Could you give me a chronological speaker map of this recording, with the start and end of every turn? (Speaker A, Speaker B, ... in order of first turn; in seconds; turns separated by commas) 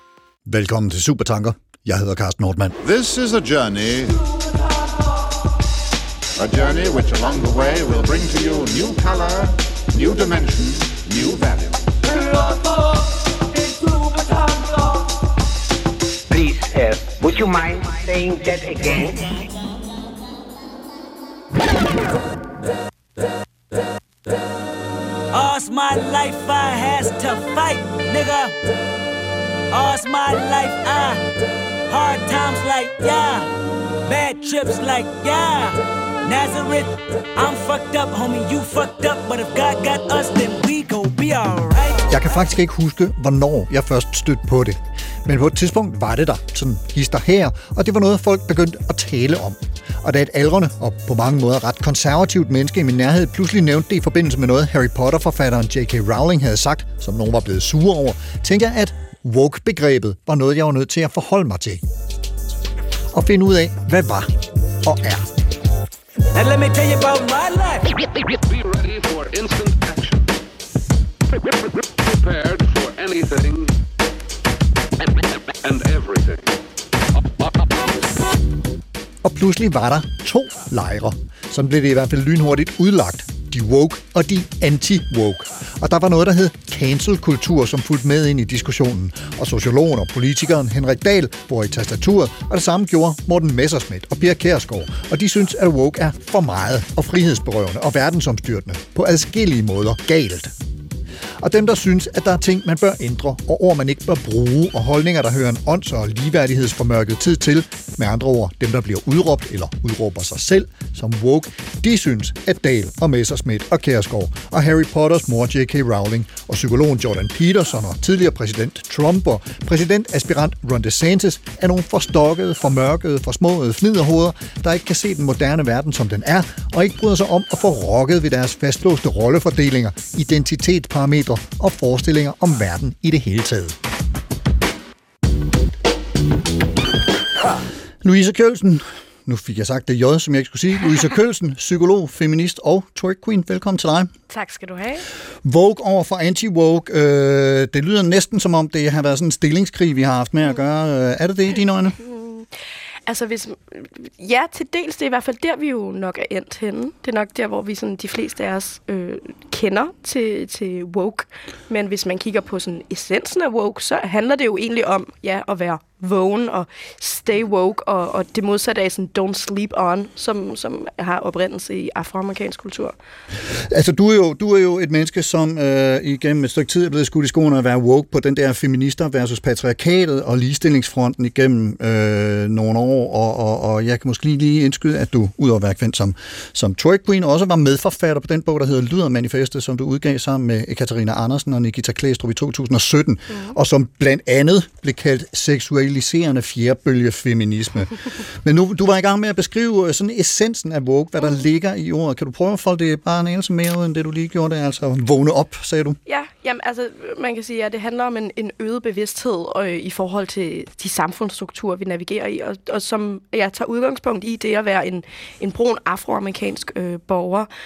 Speaker A: 0.5-2.8, Speaker B: 2.8-4.2, Speaker B: 6.4-12.0, Speaker C: 16.3-19.4, Speaker D: 25.3-28.6, Speaker D: 29.7-31.2, Speaker D: 31.9-33.5, Speaker D: 34.1-42.1, Speaker A: 42.1-61.8, Speaker A: 63.1-65.3, Speaker D: 66.3-68.0, Speaker E: 68.5-70.3, Speaker E: 72.0-73.7, Speaker E: 75.6-76.5, Speaker A: 79.2-100.5, Speaker A: 101.4-133.8, Speaker A: 138.0-144.1, Speaker F: 144.3-145.1, Speaker A: 145.4-152.0, Speaker F: 152.0-152.5, Speaker F: 153.1-172.9, Speaker A: 173.6-206.0, Speaker F: 206.1-217.5